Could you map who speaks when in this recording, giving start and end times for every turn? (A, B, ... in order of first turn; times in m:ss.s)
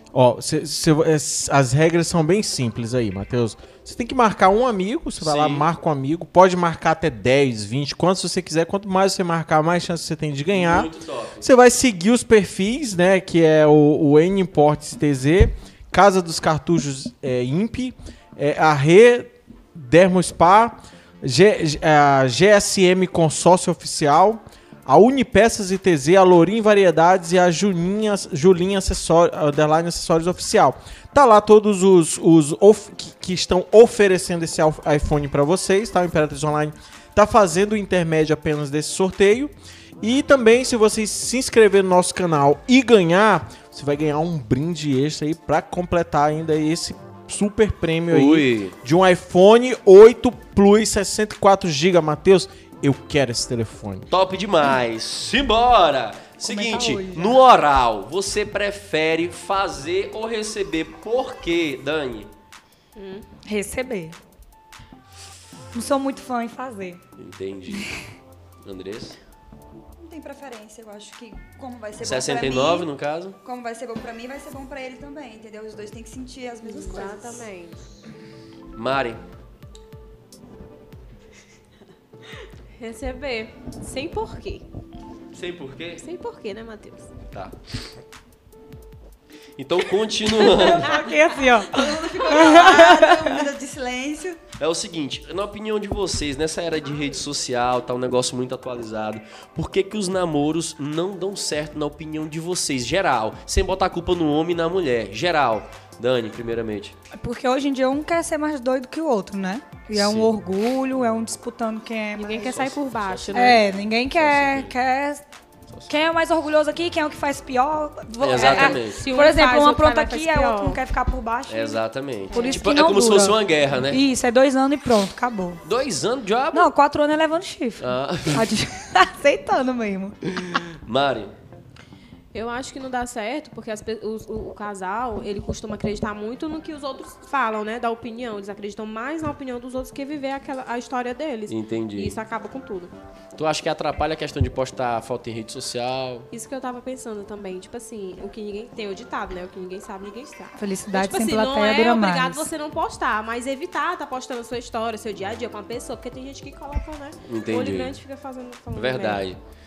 0:00.1-0:54.0 A
0:05.2-0:05.7 B
0:10.5-0:11.5 B
0:48.1-0:48.7 B
0:54.1-1:02.3 B
0:56.4-0:57.4 C
1:03.0-1:03.2 D
1:03.4-1:04.2 C
1:05.7-1:07.0 C
1:07.2-1:07.9 B
1:08.6-1:09.2 B
1:10.0-1:12.9 E
1:12.0-1:13.4 B
1:13.4-1:17.5 E
1:16.6-1:17.9 D
1:18.7-1:19.2 B
1:22.7-1:24.6 D
1:25.3-1:26.0 B
1:26.0-1:27.1 D
1:29.6-1:31.0 B
1:30.4-1:33.4 C
1:31.7-1:34.4 E
1:34.6-1:47.0 B
1:47.1-1:52.6 C
1:49.9-1:50.3 B
1:52.2-1:53.6 D
1:52.5-1:54.7 B
1:53.3-1:55.2 C
1:55.9-2:05.6 C
1:58.2-1:59.0 B
1:58.4-2:00.8 D
2:01.5-2:04.0 B
2:02.3-2:02.7 D
2:05.6-2:06.7 B
2:06.5-2:10.3 C
2:07.8-2:08.5 B
2:10.3-2:11.3 B
2:12.3-2:22.9 D
2:21.5-2:22.2 B
2:23.4-2:26.3 B
2:26.3-2:39.2 D
2:30.6-2:32.5 C
2:37.2-2:38.0 B
2:38.7-2:39.4 B